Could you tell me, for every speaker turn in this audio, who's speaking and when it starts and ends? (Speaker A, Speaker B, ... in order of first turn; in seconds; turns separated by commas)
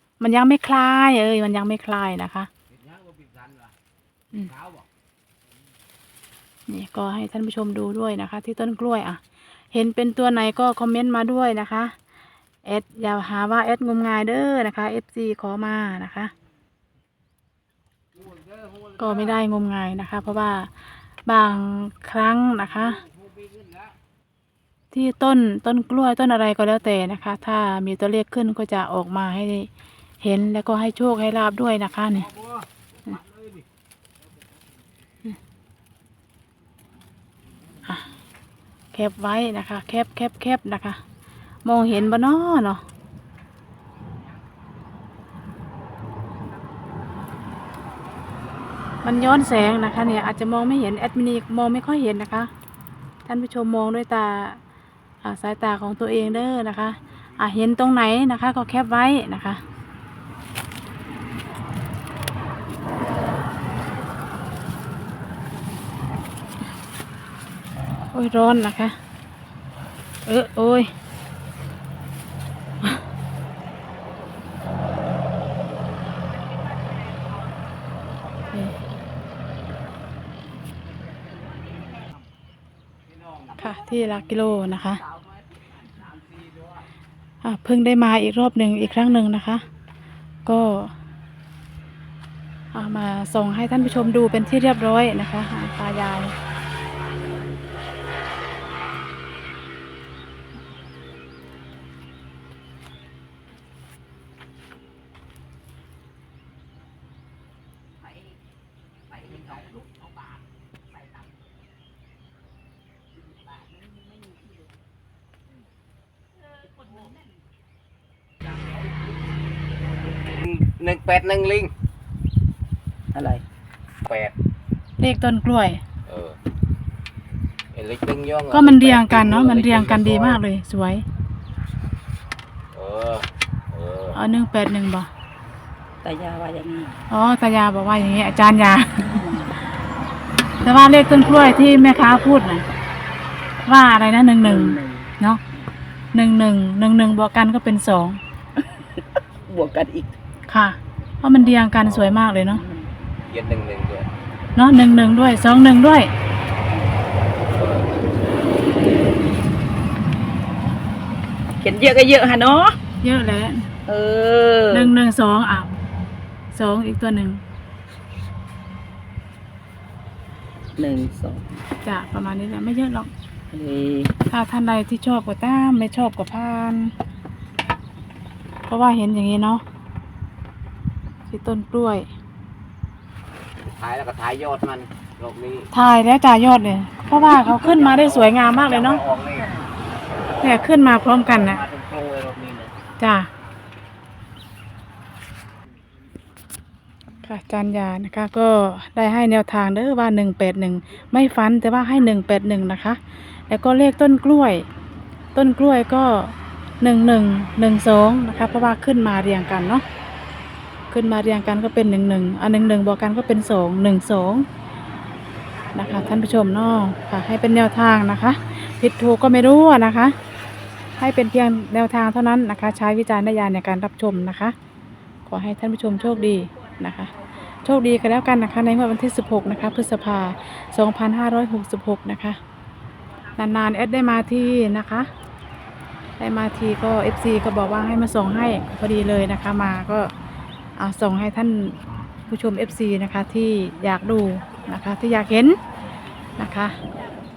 Speaker A: 0.2-2.5, Speaker B: 2.9-3.7, Speaker B: 4.5-4.8, Speaker A: 6.7-9.2, Speaker A: 9.7-11.9, Speaker A: 12.7-16.3, Speaker A: 19.0-20.7, Speaker A: 21.3-23.0, Speaker B: 23.6-23.9, Speaker A: 24.9-29.7, Speaker A: 30.2-32.3, Speaker A: 38.9-41.0, Speaker A: 41.6-42.8, Speaker A: 49.0-52.5, Speaker A: 53.3-54.6, Speaker A: 55.2-59.6, Speaker A: 68.1-69.0, Speaker A: 70.3-70.9, Speaker A: 78.5-78.8, Speaker A: 83.6-85.0, Speaker A: 87.4-89.6, Speaker A: 90.5-90.9, Speaker A: 92.7-96.3, Speaker B: 120.2-121.7, Speaker C: 123.1-123.4, Speaker B: 124.1-124.3, Speaker A: 125.0-125.8, Speaker B: 126.1-126.4, Speaker B: 127.7-130.4, Speaker A: 128.5-131.0, Speaker B: 132.7-134.2, Speaker A: 134.1-135.1, Speaker C: 136.0-137.0, Speaker A: 137.1-139.1, Speaker C: 139.1-139.6, Speaker A: 140.6-142.7, Speaker A: 143.7-145.4, Speaker C: 144.4-145.1, Speaker A: 146.1-148.2, Speaker C: 148.6-150.2, Speaker A: 150.5-152.6, Speaker B: 151.8-152.2, Speaker C: 152.5-152.9, Speaker B: 153.3-154.1, Speaker A: 154.6-156.1, Speaker B: 157.5-157.9, Speaker C: 161.6-162.8, Speaker A: 163.0-163.7, Speaker C: 163.9-164.9, Speaker A: 164.7-165.7, Speaker A: 166.5-167.4, Speaker C: 170.8-171.6, Speaker A: 171.8-173.1, Speaker C: 173.5-174.1, Speaker A: 174.3-176.9, Speaker A: 178.7-179.6, Speaker A: 181.3-182.1, Speaker B: 183.7-185.7, Speaker A: 185.7-189.0, Speaker B: 187.1-189.5, Speaker C: 189.3-189.7, Speaker A: 190.4-191.6, Speaker B: 191.2-192.7, Speaker A: 193.0-193.3, Speaker A: 197.2-204.7, Speaker A: 205.3-209.8, Speaker A: 210.9-214.5, Speaker A: 215.7-220.2, Speaker A: 221.0-224.6, Speaker A: 225.3-227.1, Speaker A: 227.6-232.4, Speaker A: 233.4-235.1, Speaker A: 236.2-240.1, Speaker A: 240.8-241.8, Speaker A: 242.3-245.6, Speaker A: 246.4-246.8